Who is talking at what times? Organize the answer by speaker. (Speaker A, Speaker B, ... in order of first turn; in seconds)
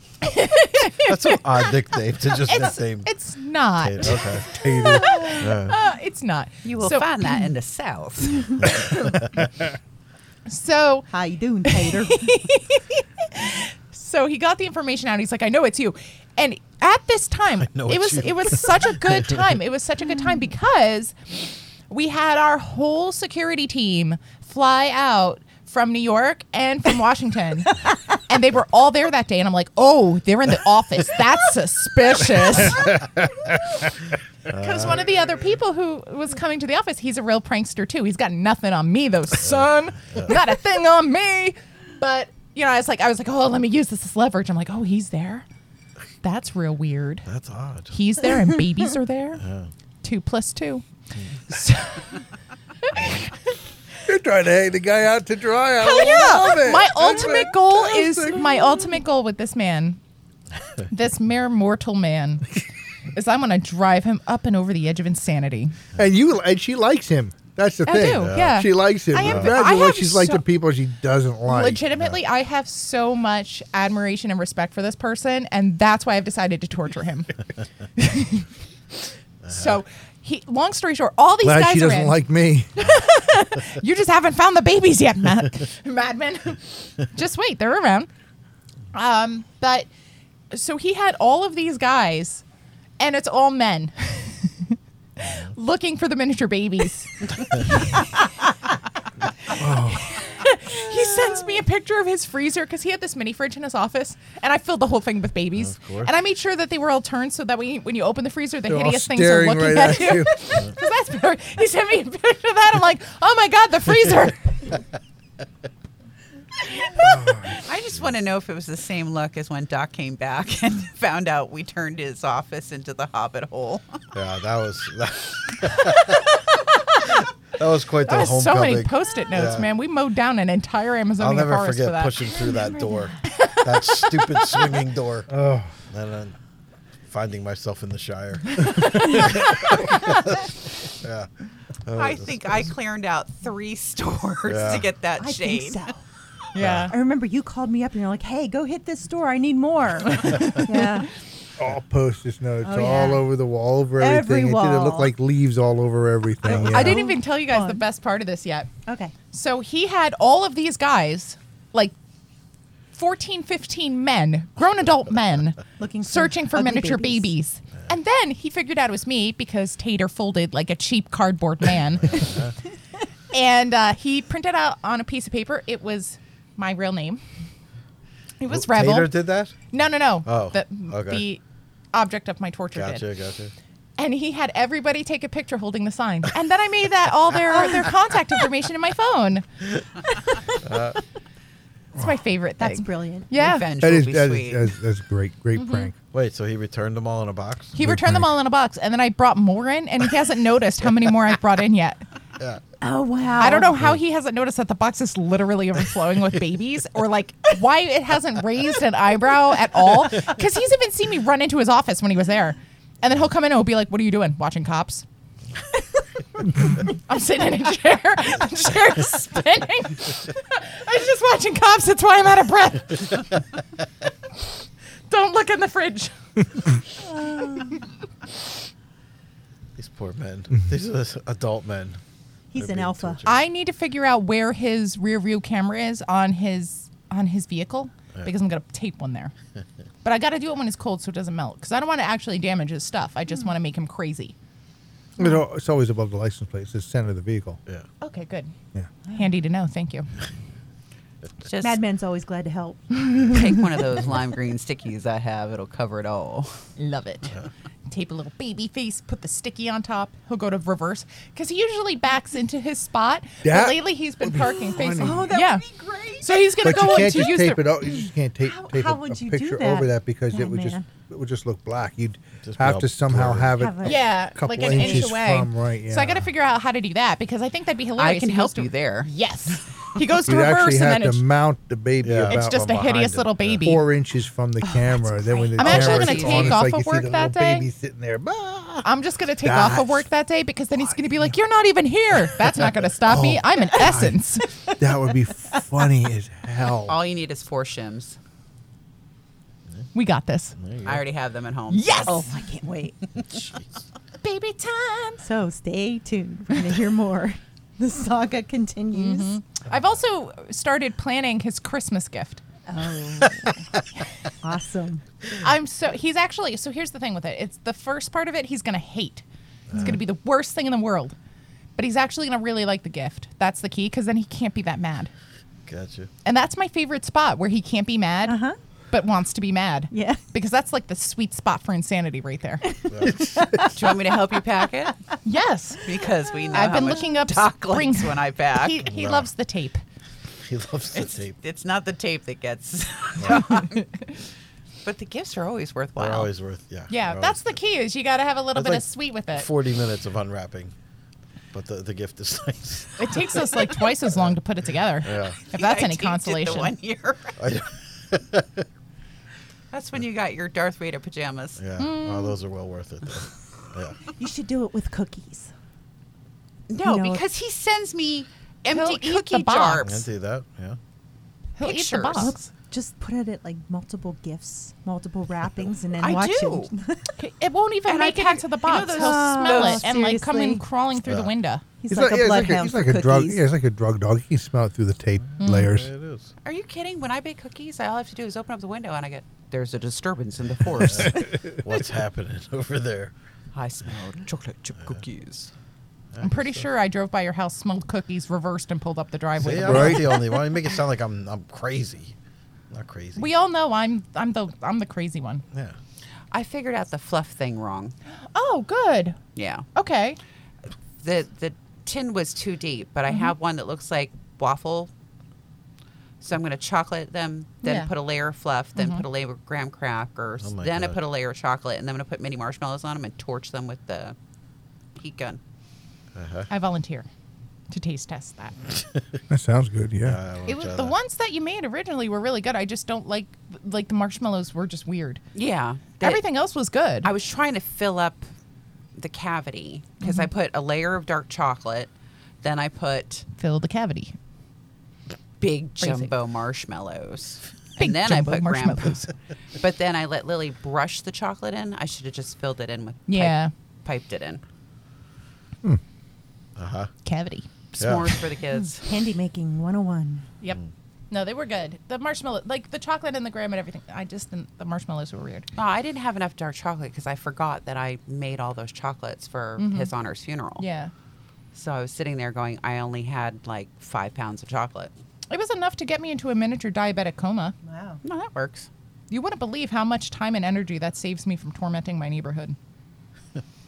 Speaker A: 0.2-1.7, 2.5-7.5, 10.5-11.1, 11.7-33.0, 34.5-45.5, 46.2-47.3, 47.9-49.4, 50.0-50.9, 51.5-52.2, 52.9-53.3, 55.8-60.0, 60.9-62.6, 63.1-65.8, 67.9-70.4, 71.5-77.4, 78.0-78.5, 79.5-82.2, 82.8-88.1, 88.9-89.9, 90.5-92.4, 93.0-98.3, 100.1-114.8, 128.0-132.6, 133.2-134.7, 138.8-139.4, 146.6-146.9, 156.5-158.7, 159.3-161.9, 162.9-172.5, 173.3-177.2, 178.4-181.4, 181.9-183.1, 184.0-189.4, 191.9-193.7, 195.6-195.9, 197.8-202.0, 203.4-215.1, 216.8-223.3, 225.1-226.2, 233.2-239.3, 240.0-244.3, 248.0-248.5, 249.1-250.1, 256.8-265.6, 266.2-267.9, 273.8-281.2, 282.3-283.9, 285.6-287.7, 288.8-294.5, 299.9-300.6, 301.7-302.2, 304.2-305.2, 308.9-312.4, 315.4-319.2, 319.8-321.1, 321.8-325.1, 326.2-332.7, 335.2-335.8, 336.5-339.8, 346.9-349.5, 353.0-356.7, 361.8-362.4, 368.7-369.8, 371.6-372.4, 377.2-381.6, 385.4-385.7, 396.2-400.4, 403.2-405.4, 408.4-409.2, 409.8-410.2, 417.6-417.9, 418.8-419.1, 426.5-427.1, 427.7-428.6, 430.5-435.2, 436.0-437.1, 440.0-440.3, 443.4-444.1, 445.8-446.1, 447.8-449.1, 453.1-453.5, 457.1-457.5, 461.1-465.5, 469.6-469.9, 470.6-470.9, 475.3-477.6, 479.1-482.6
Speaker B: 1.0-3.1, 3.8-4.5, 5.3-5.8, 9.0-9.3, 17.6-19.3, 34.5-35.1, 39.5-40.3, 47.3-48.0, 49.4-49.7, 68.1-68.6, 69.2-69.6, 105.6-106.1, 124.1-126.2, 127.6-129.7, 131.2-135.3, 135.9-136.3, 137.1-140.5, 141.0-141.3, 141.9-142.7, 144.5-144.9, 146.6-146.9, 172.0-172.5, 178.5-179.6, 180.2-181.3, 182.8-183.5, 190.6-191.0, 196.1-197.8, 229.8-232.0, 232.6-233.4, 272.4-273.6, 282.0-283.7, 300.6-301.0, 303.3-303.6, 319.7-320.0, 325.7-326.1, 332.9-333.6, 338.9-339.3, 340.4-341.4, 343.2-343.4, 346.0-347.5, 348.6-350.7, 351.5-353.4, 354.1-354.4, 355.0-355.4, 357.4-358.6, 361.6-364.0, 369.8-370.8, 381.1-381.3, 385.4-386.3, 390.9-393.1, 396.1-396.6, 399.4-402.1, 402.7-403.3, 420.4-421.0, 426.1-426.5, 428.7-429.2, 430.0-430.9, 456.6-456.9, 457.8-458.1
Speaker C: 4.5-5.2, 54.1-58.9, 66.0-72.0, 81.4-82.7, 99.6-100.3, 108.7-110.3, 117.0-117.6, 135.3-135.7, 151.6-157.0, 193.8-195.9, 197.8-198.3, 245.2-247.6, 263.4-265.4, 266.6-276.3, 280.3-282.7, 283.6-288.9, 289.4-290.0, 293.1-294.2, 294.8-297.0, 381.9-385.9, 399.6-400.1, 429.3-430.2
Speaker D: 6.6-8.7, 117.6-124.0, 141.9-145.8, 193.3-194.7, 251.4-251.8, 253.3-256.6, 278.0-279.6, 285.4-286.6, 296.9-298.2, 300.8-302.2, 333.8-335.0, 335.8-338.9, 340.9-343.9, 344.8-346.3, 355.5-357.4, 359.7-361.6, 366.7-370.1, 371.6-372.3, 376.0-376.7, 377.9-379.8, 386.4-391.4, 393.5-395.5, 406.3-407.9, 409.4-409.7, 411.0-414.9, 416.2-424.2, 425.0-425.4, 435.4-436.2, 437.0-438.2, 439.0-441.9, 442.4-443.3, 445.4-454.4, 457.8-458.9, 465.6-470.6, 471.5-474.9, 478.0-478.7
Speaker E: 11.1-12.4, 145.2-146.0, 146.9-151.1, 152.6-153.3, 154.0-155.1, 156.5-157.8, 158.9-159.1, 165.8-167.3, 192.6-193.3, 202.8-203.7, 227.2-227.7, 232.5-233.2, 251.6-253.3, 265.0-266.6, 268.4-270.9, 273.6-274.0, 302.1-303.0, 305.2-309.4, 312.7-313.6, 314.4-315.0, 328.3-328.6, 329.9-330.2, 332.7-333.9, 364.2-365.5, 366.8-367.2, 372.2-377.1, 378.8-380.6, 381.8-383.4, 458.8-460.3, 477.6-478.0